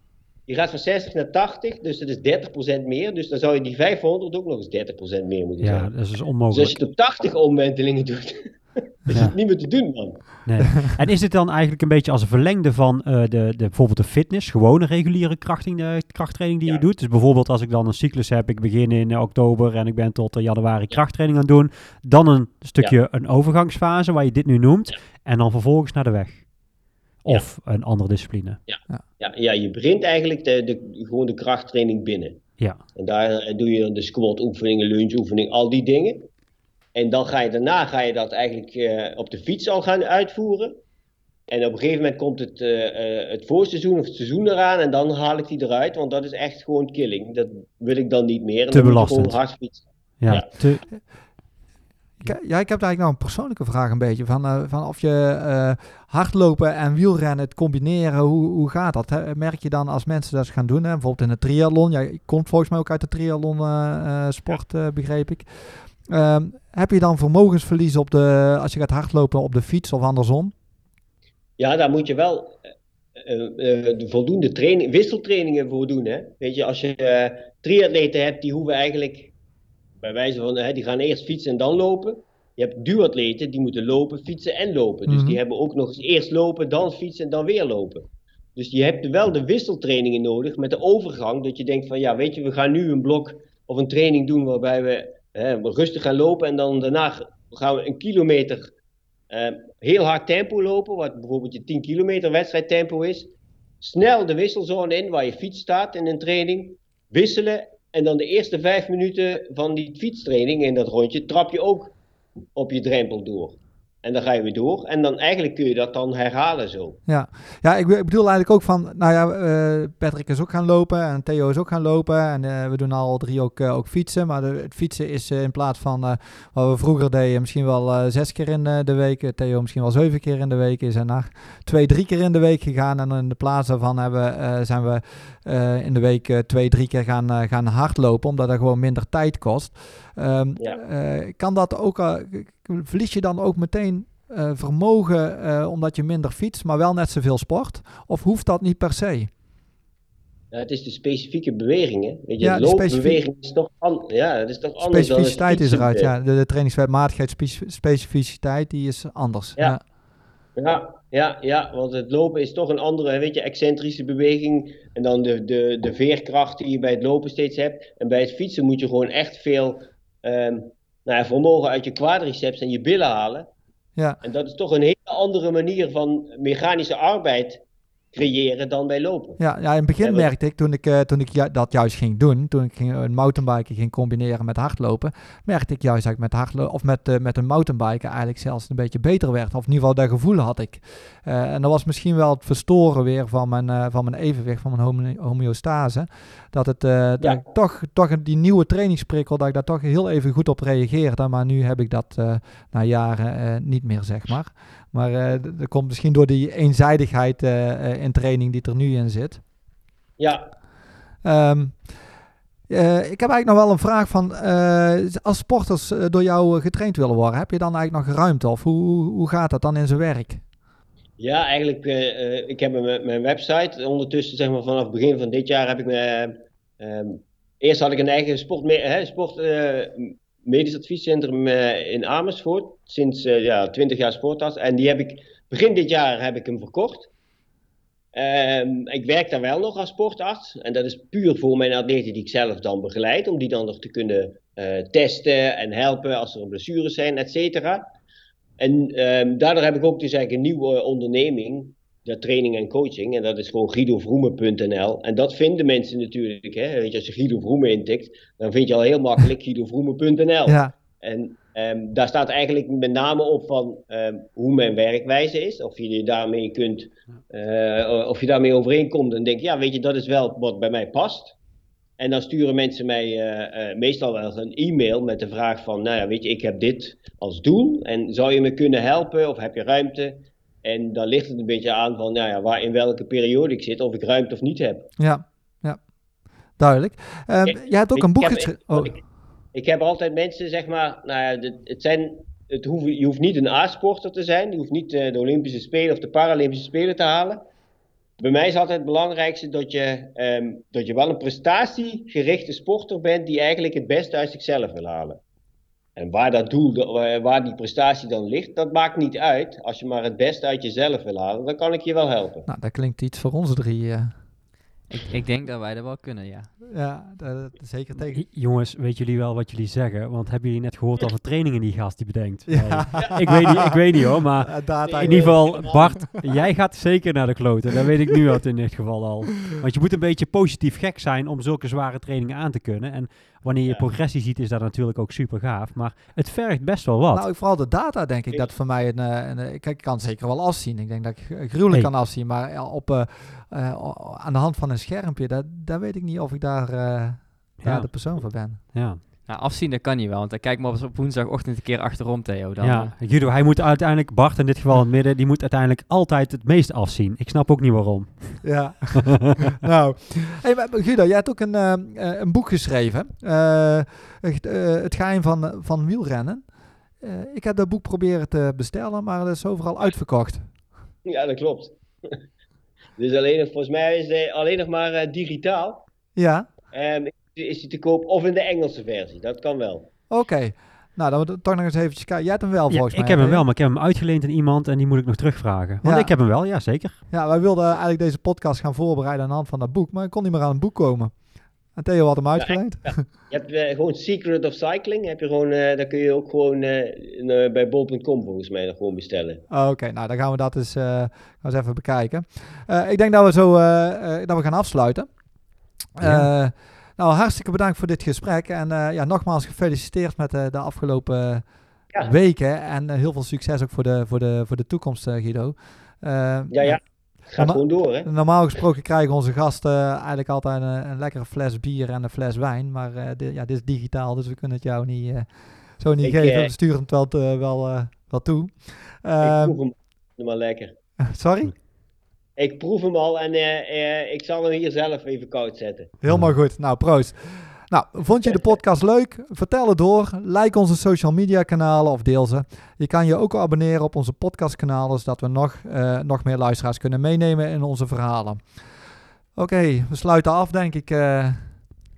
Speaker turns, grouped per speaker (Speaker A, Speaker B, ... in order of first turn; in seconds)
Speaker A: 0.5-5.9, 6.5-10.3, 28.7-32.4, 33.0-36.3, 37.0-40.8, 41.5-50.5, 71.6-72.6, 73.2-79.3, 80.0-88.0, 88.6-98.7, 99.3-103.3, 103.8-111.9, 112.5-117.0, 150.5-156.1, 160.6-173.5, 174.2-177.6, 178.1-179.4, 180.0-180.3, 210.2-210.5, 221.2-237.1, 238.1-247.9, 248.6-271.4, 272.0-284.9, 287.5-289.0, 289.5-297.4, 298.2-305.2, 306.0-312.5, 323.0-323.7, 324.9-326.1, 371.1-372.2, 373.0-375.9, 376.7-379.9, 392.4-399.4, 416.5-418.1, 426.0-426.5, 429.2-430.8, 432.4-435.9
Speaker B: 5.6-6.8, 10.5-26.4, 27.2-28.6, 48.7-49.4, 50.2-50.9, 318.1-337.3, 347.6-348.0, 348.6-349.0, 352.6-359.0, 382.7-387.0, 406.0-406.3, 436.1-436.4
Speaker C: 52.2-70.5, 85.1-85.4, 117.1-149.3, 152.4-153.2, 154.8-159.8, 179.4-209.4, 211.2-211.9, 212.7-220.4, 260.5-260.7, 285.0-285.8, 286.6-288.9, 312.5-314.1, 316.7-318.2, 322.5-323.8, 324.4-325.9, 337.1-348.6, 358.4-366.5, 367.0-370.5, 376.2-376.5, 380.1-383.4, 385.8-386.1, 387.1-391.2, 391.7-393.1, 399.5-405.1, 405.9-429.6, 431.0-431.5, 436.0-448.6, 449.4-451.6
Speaker D: 314.9-316.5, 349.3-352.9